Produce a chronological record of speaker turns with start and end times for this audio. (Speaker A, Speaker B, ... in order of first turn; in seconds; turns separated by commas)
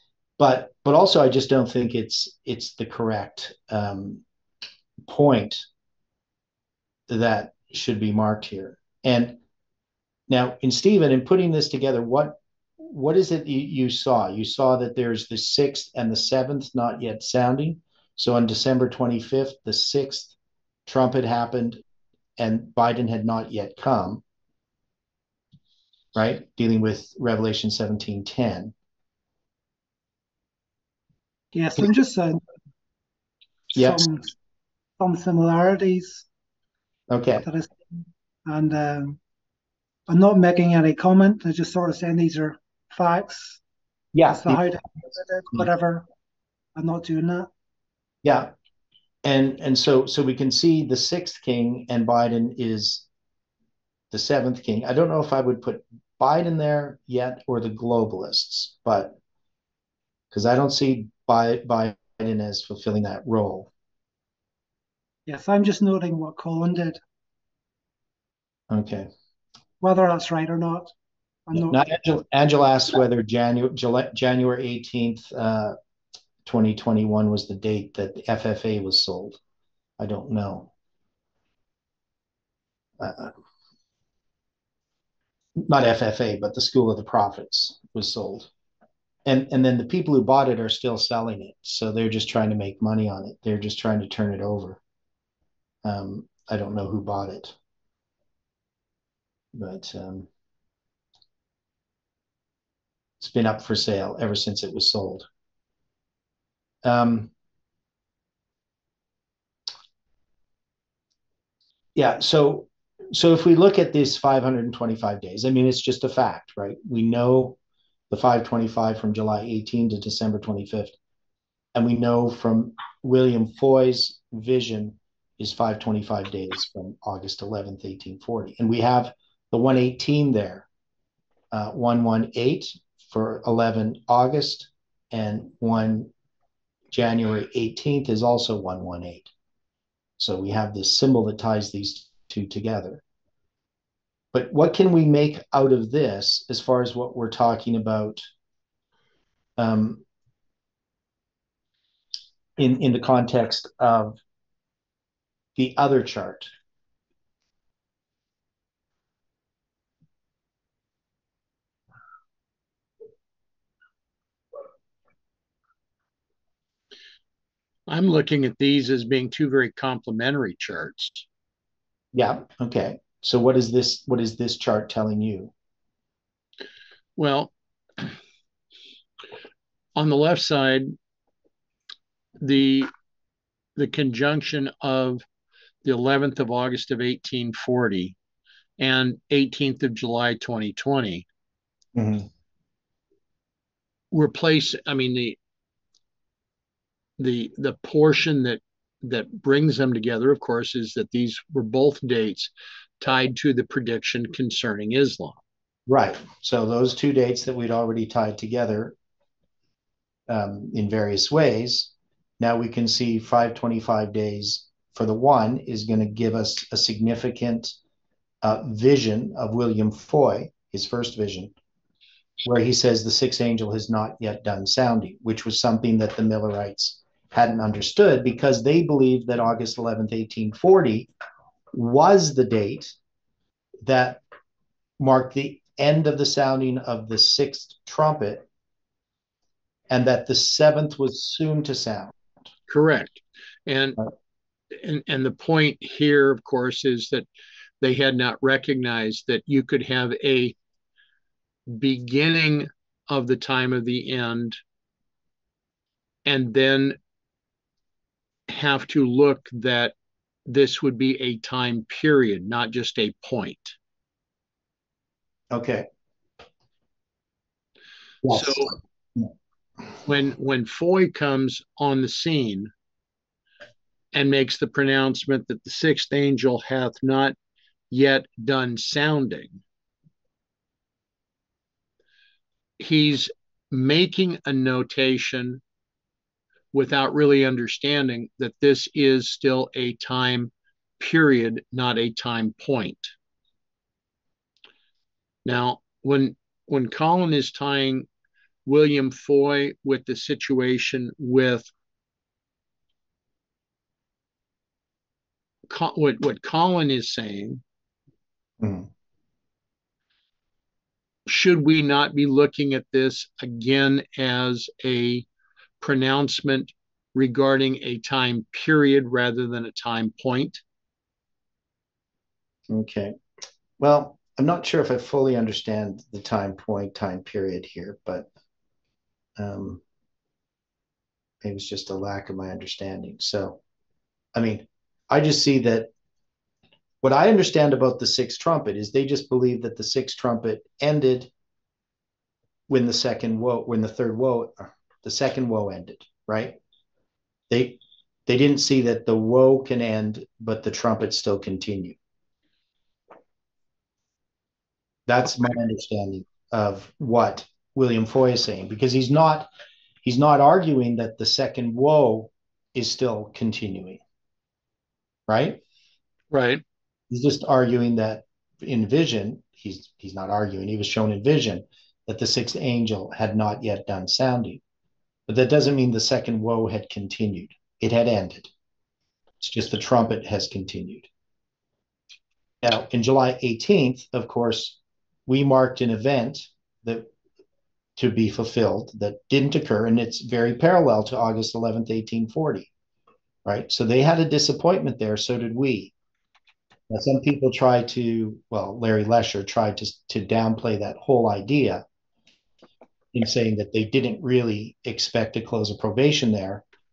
Speaker A: 0.4-4.2, Speaker A: 5.0-5.6, Speaker A: 7.1-9.4, Speaker A: 10.3-20.3, Speaker A: 20.9-21.8, Speaker A: 22.4-24.2, Speaker A: 26.1-28.7, Speaker B: 31.5-32.4, Speaker A: 33.7-34.0, Speaker B: 33.7-34.3, Speaker B: 35.0-36.2, Speaker A: 37.1-37.5, Speaker B: 37.4-37.7, Speaker B: 38.5-39.2, Speaker B: 40.1-43.6, Speaker A: 44.1-44.7, Speaker B: 44.3-46.0, Speaker B: 46.8-47.5, Speaker A: 48.2-48.5, Speaker A: 49.2-53.0, Speaker A: 54.1-59.2, Speaker A: 60.3-63.7, Speaker B: 65.3-67.0, Speaker A: 68.7-69.1, Speaker B: 69.8-70.9, Speaker B: 71.5-71.9, Speaker A: 71.5-75.7, Speaker A: 76.4-79.4, Speaker A: 80.0-80.7, Speaker A: 83.0-83.3, Speaker A: 85.6-88.5, Speaker A: 89.2-94.8, Speaker A: 95.8-97.5, Speaker A: 99.5-100.3, Speaker A: 103.2-105.3, Speaker A: 106.8-107.3, Speaker A: 112.0-117.6, Speaker A: 118.1-120.9, Speaker A: 121.7-130.7, Speaker A: 131.5-136.1, Speaker A: 136.9-139.3, Speaker A: 140.2-143.0, Speaker A: 144.3-148.2, Speaker A: 149.6-150.0, Speaker A: 152.6-154.2, Speaker A: 155.6-156.5, Speaker C: 167.9-171.2, Speaker A: 172.1-175.5, Speaker C: 177.2-178.1, Speaker C: 179.9-180.9, Speaker C: 182.4-182.9, Speaker C: 183.8-185.2, Speaker C: 185.8-188.2, Speaker C: 188.8-191.2, Speaker A: 191.9-192.3, Speaker C: 194.1-195.4, Speaker C: 197.2-205.4, Speaker A: 205.9-208.9, Speaker A: 210.3-217.8, Speaker A: 218.4-221.5, Speaker A: 222.4-231.1, Speaker A: 231.7-232.9, Speaker A: 233.8-234.2, Speaker A: 235.0-238.4, Speaker A: 239.9-242.1, Speaker C: 242.7-244.0, Speaker C: 244.7-247.2, Speaker C: 247.8-250.5, Speaker C: 251.7-254.6, Speaker C: 256.2-257.0, Speaker C: 258.5-259.9, Speaker C: 260.4-263.8, Speaker A: 265.5-265.9, Speaker A: 268.2-269.3, Speaker C: 268.3-268.7, Speaker C: 270.0-272.7, Speaker C: 274.1-277.4, Speaker C: 277.9-279.6, Speaker C: 282.8-285.6, Speaker C: 286.7-293.1, Speaker C: 295.4-298.1, Speaker C: 298.6-301.7, Speaker C: 305.7-307.6, Speaker A: 308.6-308.9, Speaker C: 311.2-315.2, Speaker C: 315.8-320.6, Speaker A: 322.7-323.1, Speaker A: 323.8-328.3, Speaker A: 329.4-329.8, Speaker A: 331.4-333.6, Speaker A: 334.4-335.9, Speaker A: 337.0-341.3, Speaker A: 342.7-346.6, Speaker A: 347.5-352.0, Speaker A: 355.1-359.5, Speaker A: 360.0-364.0, Speaker A: 365.3-365.6, Speaker C: 366.3-366.6, Speaker A: 367.1-374.6, Speaker A: 375.3-378.5, Speaker A: 379.4-381.1, Speaker A: 382.6-387.1, Speaker A: 388.0-392.7, Speaker A: 393.4-395.9, Speaker A: 396.9-401.8, Speaker A: 403.1-406.6